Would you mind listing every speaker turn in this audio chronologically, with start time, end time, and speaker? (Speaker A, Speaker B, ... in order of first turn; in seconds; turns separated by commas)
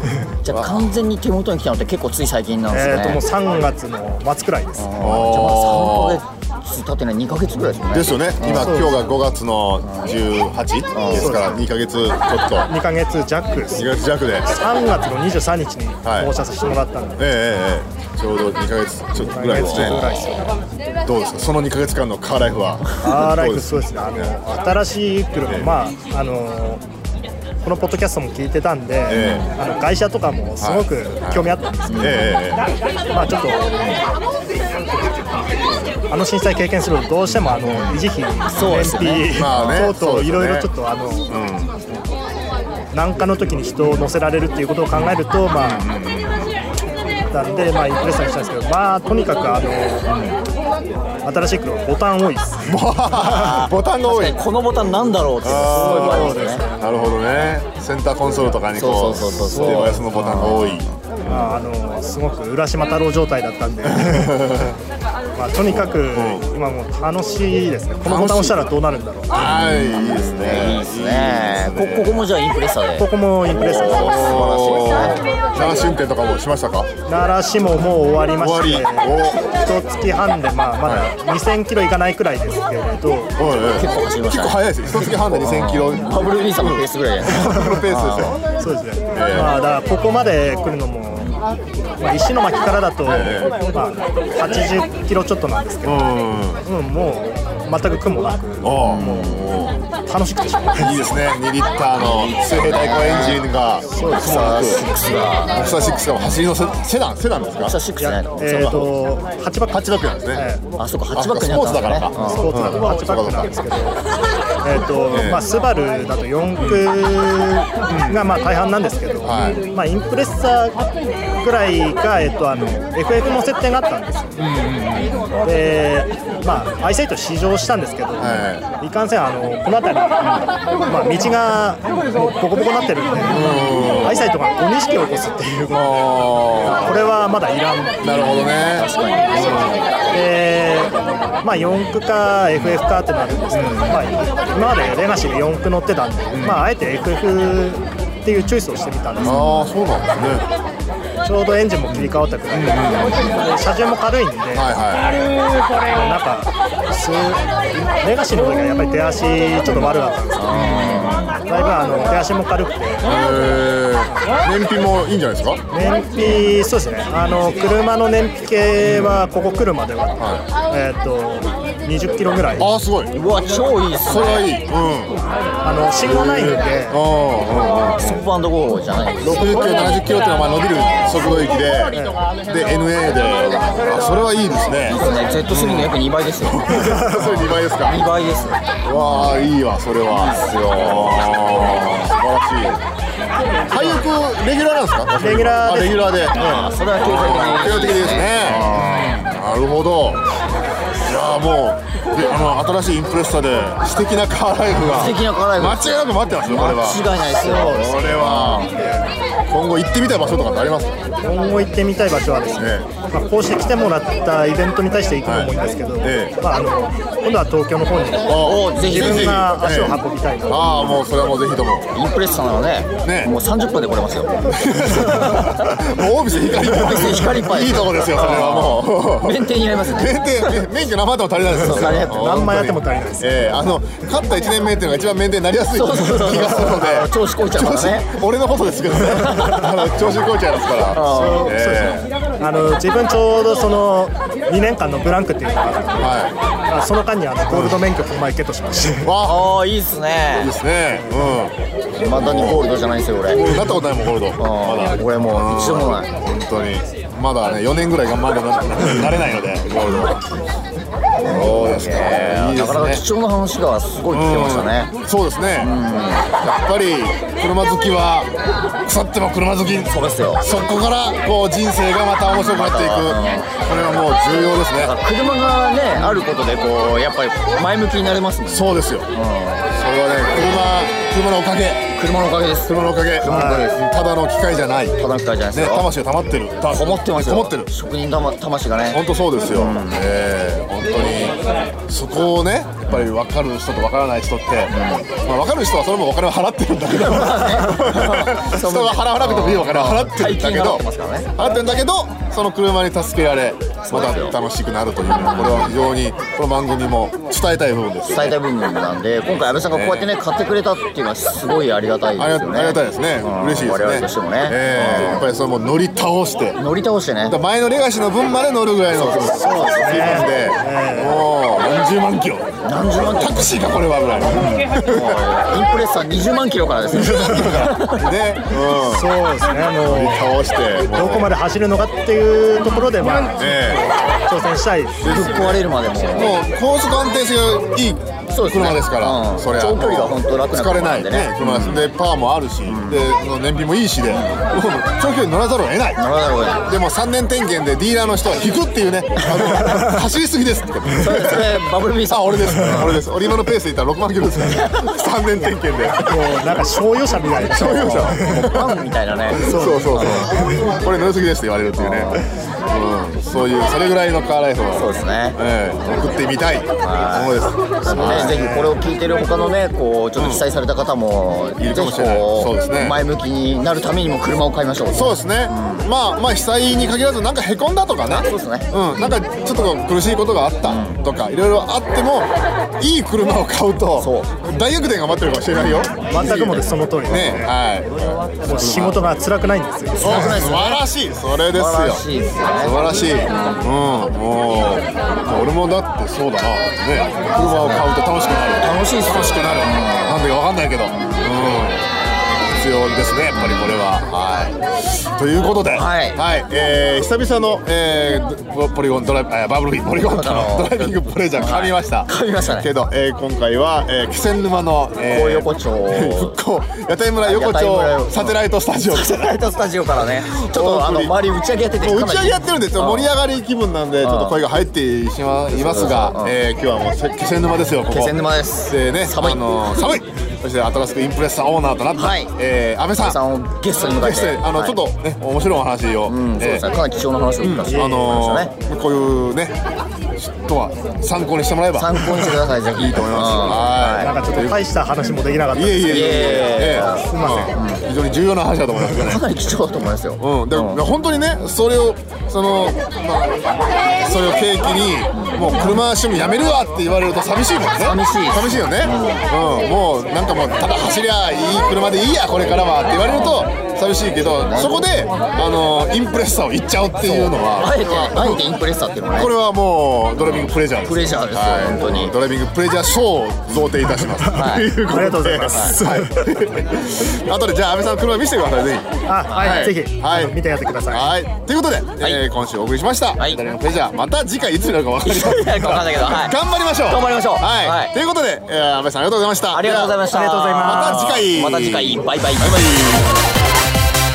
Speaker A: 0.4-3.2, Speaker B: 0.5-0.9, Speaker C: 2.7-4.9, Speaker A: 4.8-8.9, Speaker B: 5.0-6.2, Speaker B: 7.9-12.7, Speaker C: 8.5-9.0, Speaker A: 9.8-10.2, Speaker A: 10.9-11.4, Speaker C: 11.1-11.6, Speaker C: 12.7-13.9, Speaker B: 13.8-14.5, Speaker C: 14.4-17.2, Speaker B: 16.0-16.3, Speaker B: 17.2-20.4, Speaker C: 19.2-20.5, Speaker A: 19.5-20.1, Speaker B: 21.0-24.3, Speaker C: 23.0-26.8, Speaker C: 27.6-32.3, Speaker B: 29.1-29.5, Speaker B: 30.6-32.7, Speaker A: 31.9-32.3, Speaker C: 33.1-33.6, Speaker C: 36.1-41.3, Speaker B: 37.3-38.0, Speaker A: 38.5-39.9, Speaker B: 39.3-40.7, Speaker B: 41.3-41.8, Speaker C: 42.9-45.9, Speaker B: 43.8-44.1, Speaker B: 44.9-46.5, Speaker C: 47.3-50.1, Speaker B: 50.1-50.4, Speaker C: 51.2-53.5, Speaker B: 52.6-54.4, Speaker A: 53.2-56.6, Speaker B: 55.4-61.5, Speaker C: 55.5-57.1, Speaker A: 58.7-60.9, Speaker C: 59.4-60.0, Speaker C: 61.2-64.6, Speaker B: 63.8-64.8, Speaker C: 65.3-69.4, Speaker B: 65.7-66.4, Speaker B: 68.0-68.6, Speaker B: 69.3-72.2, Speaker A: 69.4-75.7, Speaker C: 73.0-74.4, Speaker B: 73.7-76.9, Speaker C: 77.1-83.3, Speaker B: 78.4-79.5, Speaker B: 83.4-88.4, Speaker A: 83.7-88.4, Speaker C: 88.6-91.4, Speaker B: 89.1-89.5, Speaker C: 92.0-96.1, Speaker B: 93.0-93.5, Speaker B: 95.8-96.6, Speaker C: 96.6-99.4, Speaker B: 98.6-99.8, Speaker A: 98.8-99.5, Speaker C: 100.0-101.2, Speaker B: 100.8-104.8, Speaker A: 102.0-103.5, Speaker C: 103.9-104.4, Speaker A: 104.0-106.4, Speaker B: 105.5-107.8, Speaker A: 107.6-108.7, Speaker C: 108.0-109.8, Speaker B: 108.4-108.9, Speaker B: 109.7-110.5, Speaker C: 110.3-110.6, Speaker A: 110.8-112.5, Speaker B: 111.1-113.5, Speaker C: 112.2-114.0, Speaker C: 114.6-120.8, Speaker B: 115.1-115.4, Speaker B: 116.6-116.9, Speaker B: 117.9-118.3, Speaker B: 119.2-119.6, Speaker C: 121.4-124.4, Speaker B: 122.5-122.8, Speaker B: 124.4-125.3, Speaker C: 125.4-136.0, Speaker B: 128.2-128.7, Speaker B: 133.2-134.3, Speaker B: 135.7-136.9, Speaker C: 136.6-138.3, Speaker B: 138.0-139.8, Speaker A: 138.2-140.0, Speaker C: 140.1-149.5, Speaker B: 143.5-144.2, Speaker B: 146.3-146.7, Speaker B: 149.2-150.4, Speaker A: 149.2-149.7, Speaker C: 151.2-154.7, Speaker B: 151.9-153.3, Speaker B: 154.5-155.3, Speaker C: 155.9-160.8, Speaker A: 160.4-161.3, Speaker B: 160.5-161.3, Speaker C: 161.4-163.2, Speaker B: 163.0-165.6, Speaker C: 165.7-172.7, Speaker B: 168.8-169.3, Speaker B: 170.2-170.4, Speaker B: 172.6-173.1, Speaker A: 173.1-174.5, Speaker B: 174.0-175.2, Speaker C: 175.6-177.0, Speaker B: 176.0-178.2, Speaker A: 177.5-179.9, Speaker B: 179.2-188.1, Speaker C: 181.9-182.2, Speaker A: 184.9-189.5, Speaker C: 186.7-187.3, Speaker B: 188.8-192.8, Speaker A: 190.1-192.1, Speaker B: 193.7-200.2, Speaker C: 193.7-194.0, Speaker C: 195.2-196.7, Speaker A: 196.4-199.3, Speaker B: 201.0-207.0, Speaker A: 204.8-208.7, Speaker C: 207.2-209.1, Speaker B: 208.0-208.7, Speaker B: 209.5-211.0, Speaker C: 211.2-220.8, Speaker B: 212.6-212.9, Speaker B: 215.2-215.5, Speaker B: 216.0-216.3, Speaker B: 218.3-221.9, Speaker A: 218.3-219.4, Speaker A: 221.9-225.8, Speaker B: 223.0-223.3, Speaker B: 224.5-242.1, Speaker A: 226.4-230.7, Speaker A: 231.5-232.3, Speaker C: 231.6-233.5, Speaker A: 235.7-238.2, Speaker A: 239.2-239.7, Speaker A: 240.9-241.6, Speaker C: 241.0-249.1, Speaker B: 246.0-246.4, Speaker B: 247.5-247.8, Speaker B: 249.0-249.5, Speaker A: 249.2-250.5, Speaker B: 250.4-251.5, Speaker A: 252.0-253.5, Speaker B: 252.1-252.7, Speaker B: 253.3-260.2, Speaker A: 254.4-256.1, Speaker A: 259.8-260.1, Speaker A: 261.2-264.9, Speaker B: 261.2-263.0, Speaker B: 264.1-268.3, Speaker A: 265.6-266.3, Speaker B: 268.8-274.9, Speaker A: 269.7-270.5, Speaker A: 272.2-274.0, Speaker A: 274.7-279.7, Speaker B: 278.5-279.1, Speaker B: 279.7-281.9, Speaker A: 282.0-283.8, Speaker B: 282.6-285.0, Speaker C: 283.2-283.7, Speaker A: 285.0-285.9, Speaker B: 285.5-287.7, Speaker A: 286.7-290.1, Speaker B: 288.9-300.8, Speaker A: 294.7-295.1, Speaker A: 296.8-301.3, Speaker B: 301.4-308.4, Speaker A: 303.8-304.4, Speaker A: 305.0-305.7, Speaker A: 308.1-315.3, Speaker B: 309.7-310.1, Speaker B: 312.2-316.6, Speaker A: 316.6-317.4, Speaker B: 317.3-325.2, Speaker A: 318.9-320.1, Speaker C: 319.3-321.2, Speaker A: 322.6-328.1, Speaker B: 326.9-329.1, Speaker C: 328.8-330.3, Speaker B: 329.8-331.3, Speaker C: 330.9-335.2, Speaker B: 333.4-333.9, Speaker B: 335.0-346.0, Speaker A: 335.0-336.4, Speaker A: 338.3-341.9, Speaker A: 342.6-343.1, Speaker A: 344.1-344.4, Speaker A: 346.0-346.8, Speaker B: 346.6-356.6, Speaker A: 349.2-349.6, Speaker A: 350.9-353.0, Speaker A: 354.5-354.8, Speaker C: 355.9-358.4, Speaker B: 357.2-358.8, Speaker A: 357.9-360.3, Speaker B: 359.3-368.4, Speaker C: 359.3-360.7, Speaker A: 361.8-362.3, Speaker A: 364.7-366.1, Speaker A: 366.8-375.9, Speaker C: 367.9-368.8, Speaker B: 370.2-370.4, Speaker B: 371.6-373.0, Speaker B: 374.9-389.2, Speaker A: 378.1-379.1, Speaker A: 380.6-381.0, Speaker A: 384.0-384.3, Speaker A: 385.6-386.6, Speaker C: 386.0-387.5, Speaker C: 388.4-390.4, Speaker A: 390.0-390.8, Speaker B: 390.0-401.8, Speaker A: 391.5-392.8, Speaker A: 397.3-397.9, Speaker A: 398.6-400.3, Speaker A: 400.9-401.9, Speaker B: 402.5-419.1, Speaker A: 403.3-403.8, Speaker A: 405.7-406.2, Speaker A: 410.0-412.7, Speaker A: 415.0-416.4, Speaker A: 417.2-423.1, Speaker B: 420.4-421.2, Speaker B: 421.8-433.2, Speaker A: 424.0-424.4, Speaker A: 425.5-426.4, Speaker A: 427.9-429.8, Speaker A: 431.9-432.3, Speaker A: 433.0-434.8, Speaker B: 433.9-436.6, Speaker A: 436.1-438.5, Speaker B: 437.4-439.6, Speaker C: 437.7-438.1, Speaker B: 440.1-444.6, Speaker A: 441.7-444.1, Speaker C: 444.0-446.1, Speaker B: 445.5-449.3, Speaker A: 445.8-447.8, Speaker C: 446.9-447.6, Speaker A: 448.8-450.8, Speaker B: 450.2-468.4, Speaker A: 455.1-455.7, Speaker A: 457.8-459.2, Speaker A: 463.0-463.5, Speaker A: 464.2-464.8, Speaker A: 467.0-469.3, Speaker B: 469.1-480.3, Speaker A: 470.2-472.1, Speaker A: 474.2-474.7, Speaker C: 474.8-476.3, Speaker A: 475.5-475.8, Speaker C: 479.1-481.1, Speaker A: 479.3-479.7, Speaker B: 480.9-490.0, Speaker A: 483.2-483.4, Speaker A: 485.0-487.9, Speaker A: 489.5-493.1, Speaker C: 490.1-491.0, Speaker B: 490.6-492.5